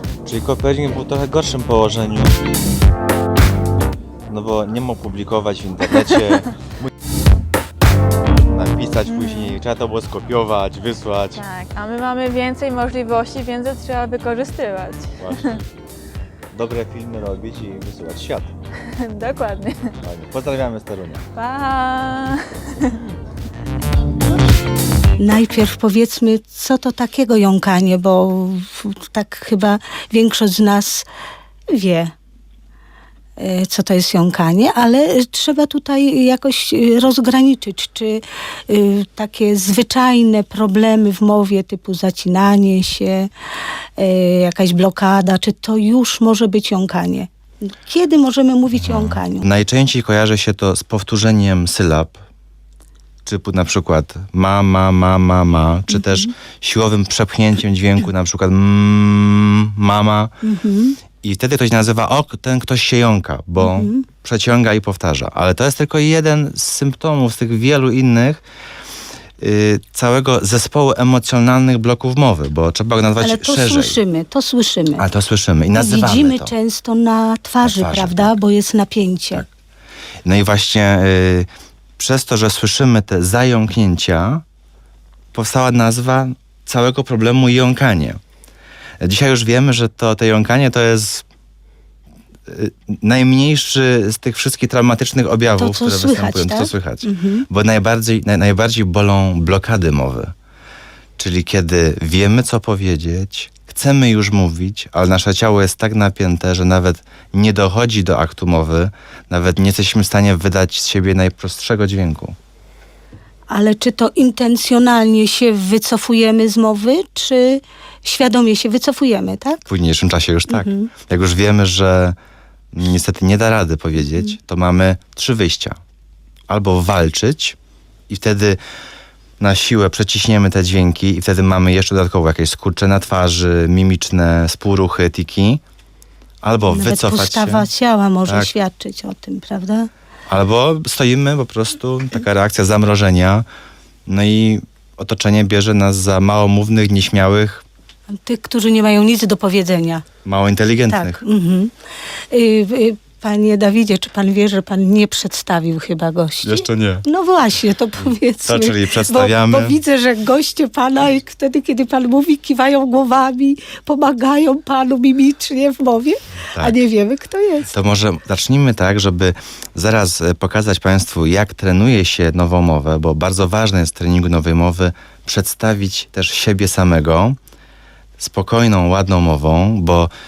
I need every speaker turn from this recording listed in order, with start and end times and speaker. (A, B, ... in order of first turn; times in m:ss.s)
0:00.2-0:02.4 A
0:04.3-0:06.5 A
0:08.5-0:11.4 A
0:09.1-0:09.5 B
0:11.3-0:15.6 B
0:15.2-0:15.6 A
0:16.5-0:18.5 A
0:19.0-0:19.9 B
0:20.0-0:21.2 A
0:21.4-0:22.9 B
0:25.2-0:31.0 C
0:31.7-0:32.1 C
0:33.4-0:43.3 C
0:44.0-0:47.3 C
0:47.8-0:49.5 C
0:48.8-0:52.2 A
0:53.3-1:00.3 A
0:55.9-0:56.3 C
1:00.4-1:01.0 C
1:01.1-1:08.4 A
1:03.6-1:04.1 C
1:09.4-1:14.0 A
1:13.2-1:15.1 C
1:15.0-1:16.5 A
1:15.7-1:19.4 C
1:17.6-1:18.3 A
1:20.2-1:21.5 A
1:22.0-1:24.4 A
1:25.3-1:28.2 A
1:29.0-1:31.2 A
1:32.5-1:40.3 A
1:35.6-1:37.4 C
1:41.2-1:52.4 A
1:53.5-1:59.6 C
1:59.7-2:02.2 A
2:00.5-2:00.9 C
2:02.7-2:05.8 A
2:04.0-2:04.4 C
2:06.5-2:07.6 A
2:08.1-2:08.6 A
2:09.4-2:15.6 A
2:16.4-2:17.7 A
2:16.7-2:19.9 C
2:18.2-2:18.5 A
2:20.3-2:23.5 A
2:24.1-2:27.6 A
2:28.2-2:30.1 C
2:30.2-2:31.2 A
2:30.9-2:31.7 C
2:32.3-2:47.7 C
2:36.4-2:37.0 A
2:38.4-2:39.8 A
2:47.7-2:57.4 A
2:58.2-3:00.1 A